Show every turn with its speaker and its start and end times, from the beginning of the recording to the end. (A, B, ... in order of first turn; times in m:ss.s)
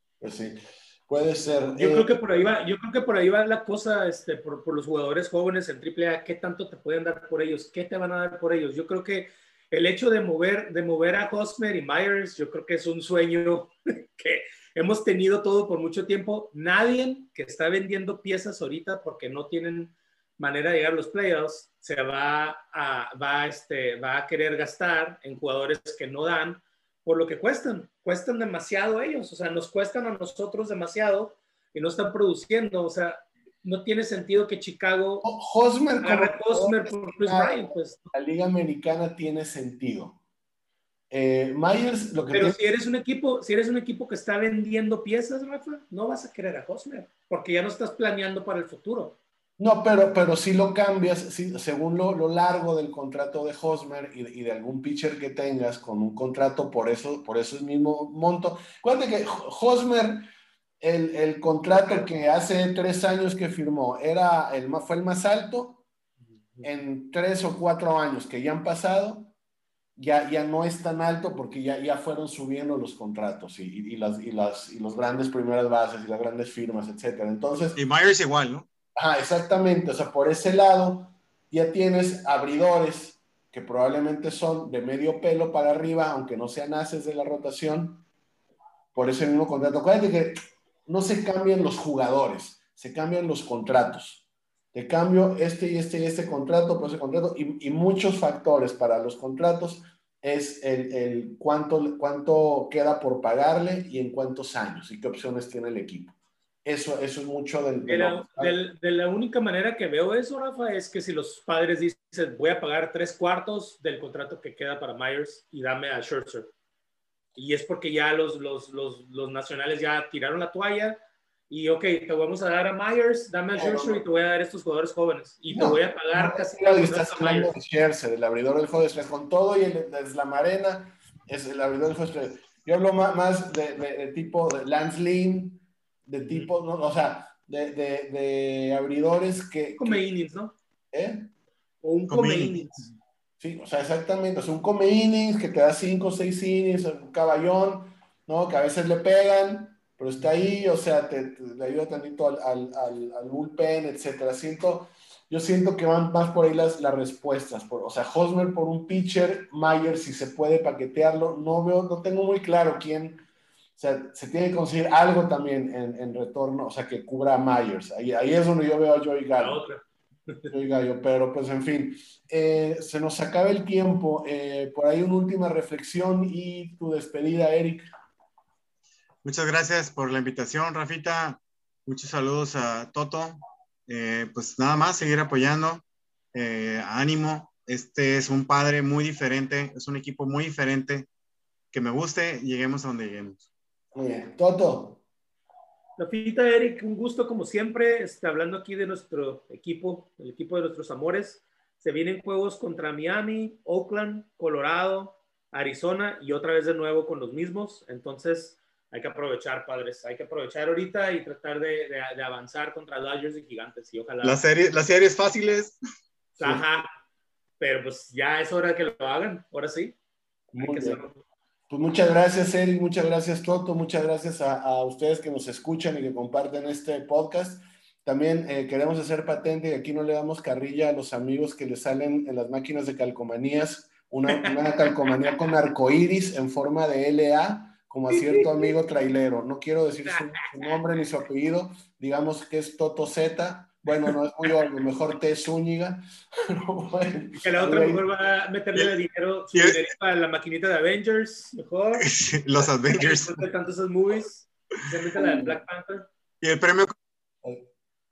0:00.2-0:02.2 A
0:01.8-0:35.3 B
0:35.2-0:40.2 A
0:36.0-0:38.1 B
0:41.1-0:42.6 A
0:42.3-0:49.2 B
0:49.6-1:00.3 A
1:00.8-1:05.8 A
1:06.6-1:09.3 A
1:10.0-1:17.8 A
1:17.8-1:18.7 C
1:19.0-1:28.0 A
1:29.0-1:30.3 A
1:30.9-1:34.2 A
1:34.7-1:46.1 A
1:46.6-1:48.6 A
1:47.9-1:56.5 B
1:57.4-2:07.5 B
2:03.5-2:04.0 A
2:05.5-2:20.0 A
2:19.8-2:20.6 B
2:20.9-2:21.3 A
2:21.8-2:22.9 B
2:22.1-2:22.9 C
2:23.4-2:43.2 A
2:43.8-2:49.6 A
2:49.4-2:50.5 B
2:50.5-2:57.8 A
2:59.2-3:11.1 C
3:11.7-3:13.5 C
3:14.0-3:15.0 A
3:16.0-3:34.4 B
3:34.2-3:35.8 C
3:36.4-3:36.6 A
3:36.4-3:36.9 B
3:37.6-3:40.0 B
3:40.5-3:41.0 A
3:40.6-3:41.2 B
3:41.7-4:08.0 A
3:54.3-3:55.1 B
3:58.1-3:58.7 B
4:00.0-4:00.8 B
4:07.4-4:12.1 B
4:09.5-4:09.8 C
4:12.0-4:13.4 C
4:12.6-4:16.1 B
4:15.2-4:15.6 A
4:16.4-4:16.9 C